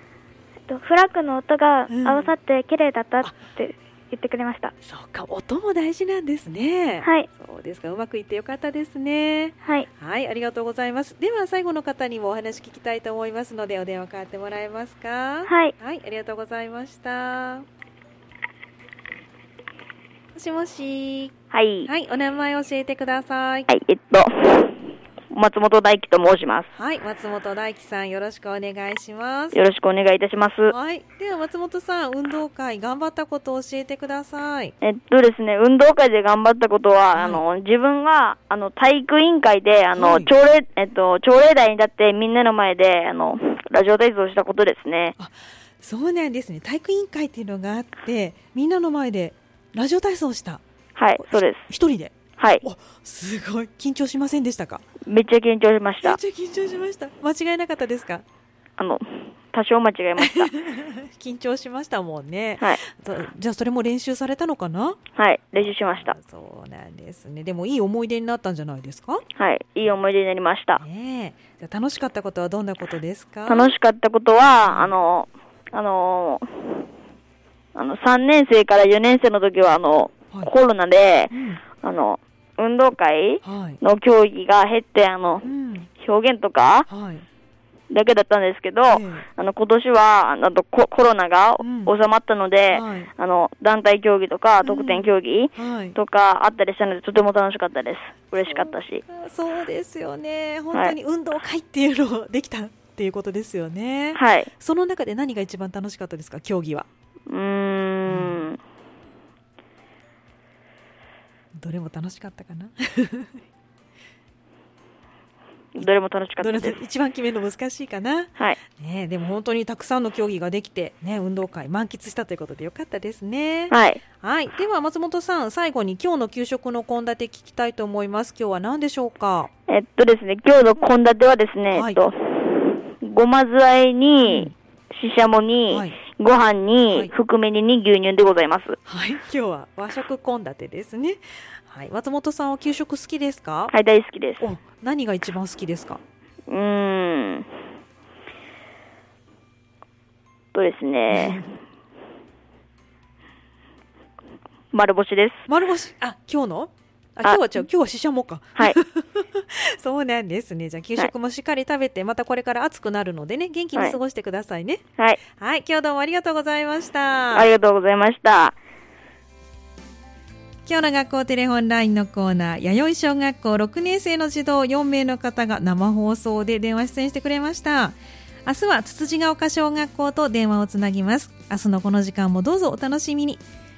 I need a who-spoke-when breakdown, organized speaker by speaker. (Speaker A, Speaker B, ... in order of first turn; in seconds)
Speaker A: 0.7-4.7, 7.0-7.3, 15.5-15.7
Speaker B: 1.9-2.3, 3.2-3.5, 4.8-17.6, 20.3-21.3, 21.9-23.7, 26.7-29.6, 30.6-34.7, 37.1-37.4, 39.9-40.3, 45.2-50.6, 51.1-54.8, 56.0-58.2, 60.1-65.0, 65.5-69.2, 70.8-73.8, 74.6-75.0, 81.3-81.7, 83.4-83.8, 85.4-85.9, 86.9-87.2, 88.9-89.2, 91.6-91.9, 92.7-93.1, 94.6-96.0, 98.4-106.9, 108.1-108.5, 111.5-113.4, 115.8-129.5, 131.7-132.1, 134.2-134.5, 135.7-136.0, 136.9-137.1, 138.8-143.7, 144.4-146.0, 151.1-151.5, 155.5-167.5, 170.7-183.4
Speaker C: 21.5-21.9, 23.7-24.8, 25.3-26.7, 29.5-30.7, 34.8-45.1, 51.0-51.6, 55.0-56.1, 58.8-60.5, 65.2-66.0, 69.4-70.8, 73.5-76.9, 77.7-85.4, 86.0-86.8, 87.9-99.0, 104.1-104.5, 107.3-108.6, 115.8-116.8, 123.7-124.0, 129.7-138.8, 143.7-144.4, 146.5-147.5, 150.5-151.4, 154.7-155.4, 167.3-168.6